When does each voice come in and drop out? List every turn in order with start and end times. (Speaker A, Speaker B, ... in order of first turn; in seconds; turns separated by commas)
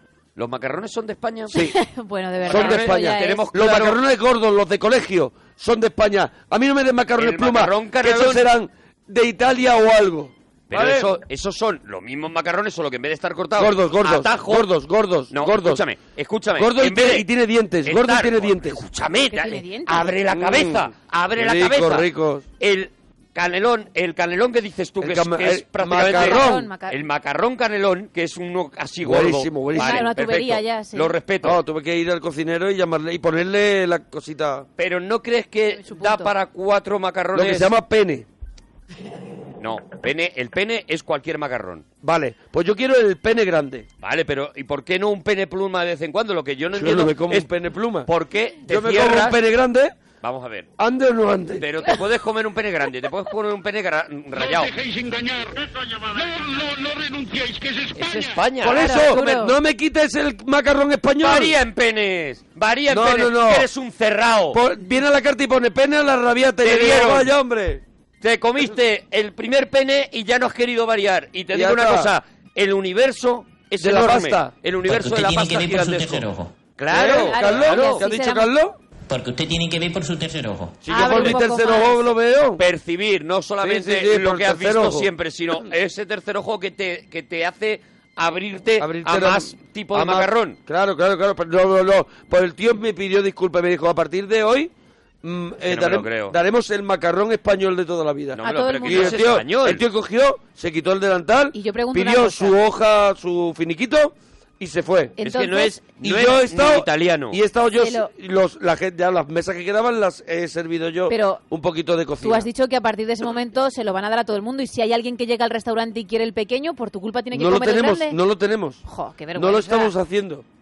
Speaker A: 0.3-1.5, Speaker B: 1.5-3.5, Speaker A: 2.5-4.0, Speaker C: 2.5-11.1, Speaker A: 7.2-8.4, Speaker A: 10.7-14.7, Speaker C: 13.6-15.8, Speaker A: 15.3-17.3, Speaker C: 16.6-18.8, Speaker A: 17.8-22.1, Speaker B: 19.3-20.1, Speaker C: 20.3-22.4, Speaker A: 22.6-31.6, Speaker C: 25.0-26.7, Speaker B: 26.0-27.0, Speaker C: 29.0-30.1, Speaker B: 29.7-31.1, Speaker C: 31.4-34.7, Speaker A: 34.8-37.7, Speaker B: 35.7-36.3, Speaker C: 37.3-38.3, Speaker A: 39.6-41.8, Speaker C: 42.0-43.9, Speaker A: 44.0-47.5, Speaker C: 46.7-48.1, Speaker A: 48.1-49.4, Speaker C: 48.6-49.9, Speaker A: 50.2-50.7, Speaker C: 50.8-51.6, Speaker A: 51.6-54.7, Speaker D: 54.3-58.5, Speaker A: 58.0-59.1, Speaker C: 58.6-61.5, Speaker B: 58.7-59.5, Speaker A: 61.2-64.6, Speaker C: 62.9-63.7, Speaker C: 64.5-67.8, Speaker A: 66.6-67.3, Speaker A: 68.2-78.0, Speaker C: 71.5-72.1, Speaker C: 73.8-74.5, Speaker E: 74.8-76.5, Speaker C: 76.9-78.8, Speaker B: 77.1-78.5, Speaker E: 79.1-80.8, Speaker C: 80.8-82.6, Speaker B: 80.9-82.0, Speaker A: 81.1-81.3, Speaker A: 82.6-90.6, Speaker C: 83.6-85.1, Speaker C: 88.8-94.7, Speaker C: 95.2-105.2, Speaker A: 95.6-96.3, Speaker A: 98.4-99.8, Speaker B: 98.4-99.3, Speaker B: 101.5-102.5, Speaker B: 105.2-105.8, Speaker A: 105.2-107.4, Speaker C: 106.0-112.5, Speaker B: 107.8-108.1, Speaker B: 111.1-111.4, Speaker B: 112.2-118.2, Speaker C: 117.3-118.8, Speaker B: 118.8-119.9, Speaker C: 119.3-120.4